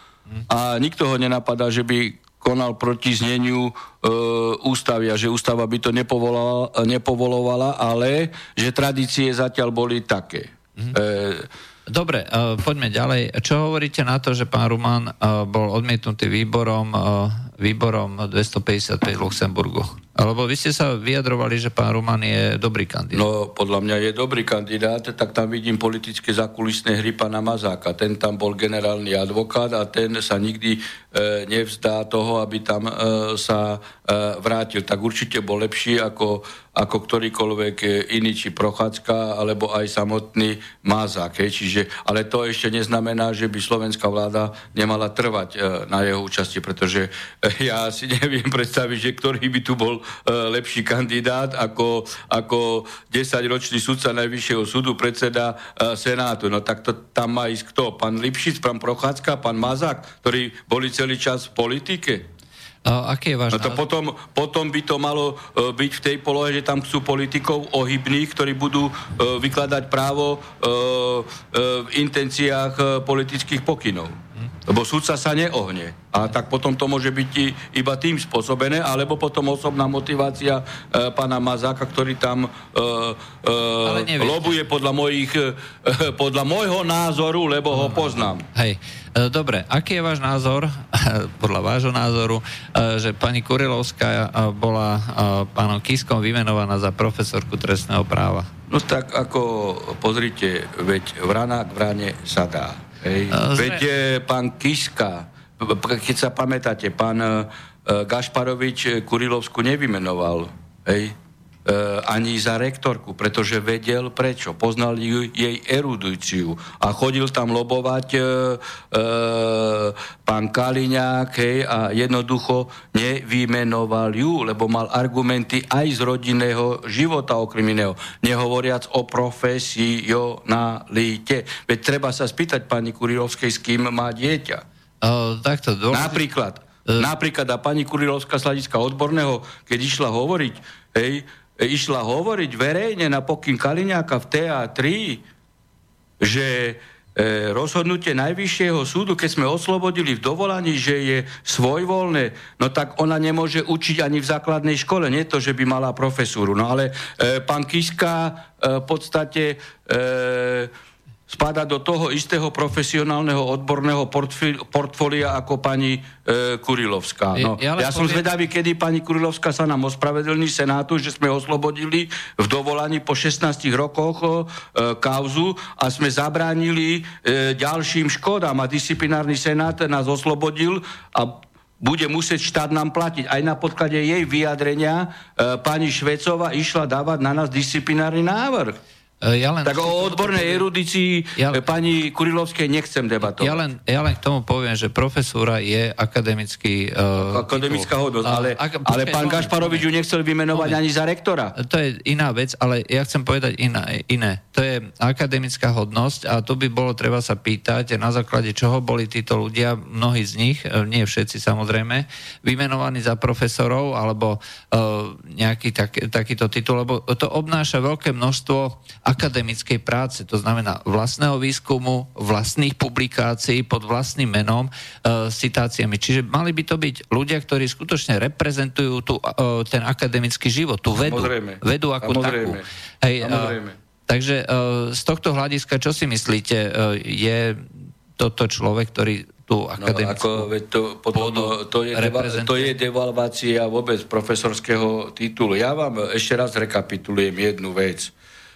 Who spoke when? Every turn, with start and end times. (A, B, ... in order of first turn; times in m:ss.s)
0:00.5-0:11.5 A
0:11.9-0:23.2 B
0:23.1-1:02.3 A
1:02.8-1:03.8 B
1:03.5-1:28.5 A
1:23.8-1:24.6 B
1:27.7-1:38.5 B
1:38.7-2:14.6 A
1:43.3-1:43.8 B
2:15.0-2:16.2 B
2:15.9-2:25.2 A
2:26.2-2:40.7 A
2:41.3-3:08.8 A
2:47.4-2:48.3 B
3:09.2-3:10.7 B
3:09.6-3:13.6 A
3:11.4-3:11.6 B
3:13.2-3:19.9 B
3:17.2-3:21.6 A
3:20.5-3:20.8 B
3:21.6-4:00.5 B
3:51.0-3:52.7 A
3:53.2-3:53.8 A
3:59.8-4:08.1 A
4:01.1-4:02.7 B